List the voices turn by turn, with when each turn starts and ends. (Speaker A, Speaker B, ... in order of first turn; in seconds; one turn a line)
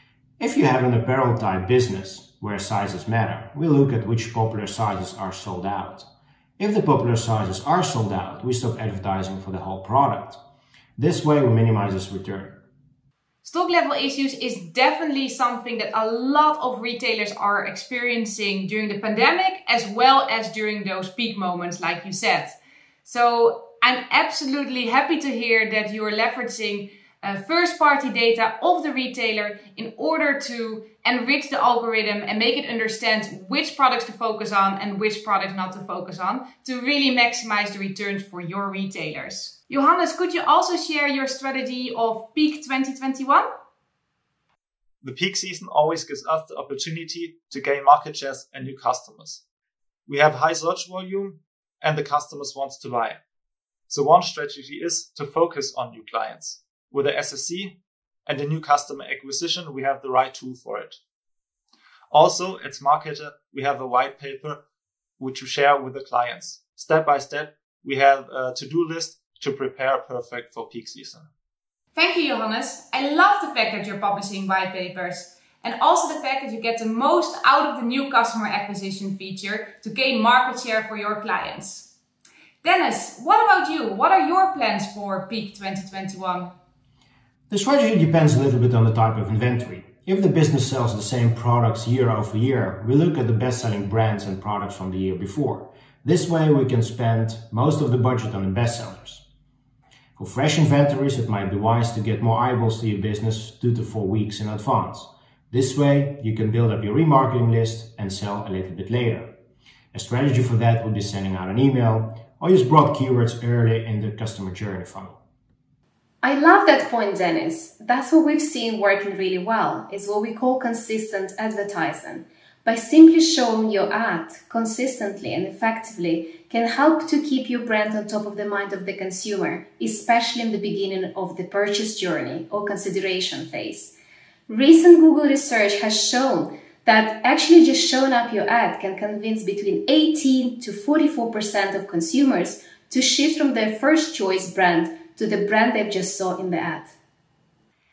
Speaker A: 0.4-10.4
Speaker A: 11.0-12.7
Speaker B: 13.4-43.5
Speaker C: 45.0-49.4
Speaker C: 50.1-53.2
Speaker C: 53.9-57.7
Speaker C: 58.2-61.0
Speaker C: 62.1-64.6
Speaker C: 65.2-71.3
Speaker B: 71.9-81.9
Speaker B: 82.6-86.5
Speaker A: 87.5-99.2
Speaker A: 100.2-109.4
Speaker A: 109.9-115.2
Speaker D: 116.2-133.9
Speaker D: 134.5-146.9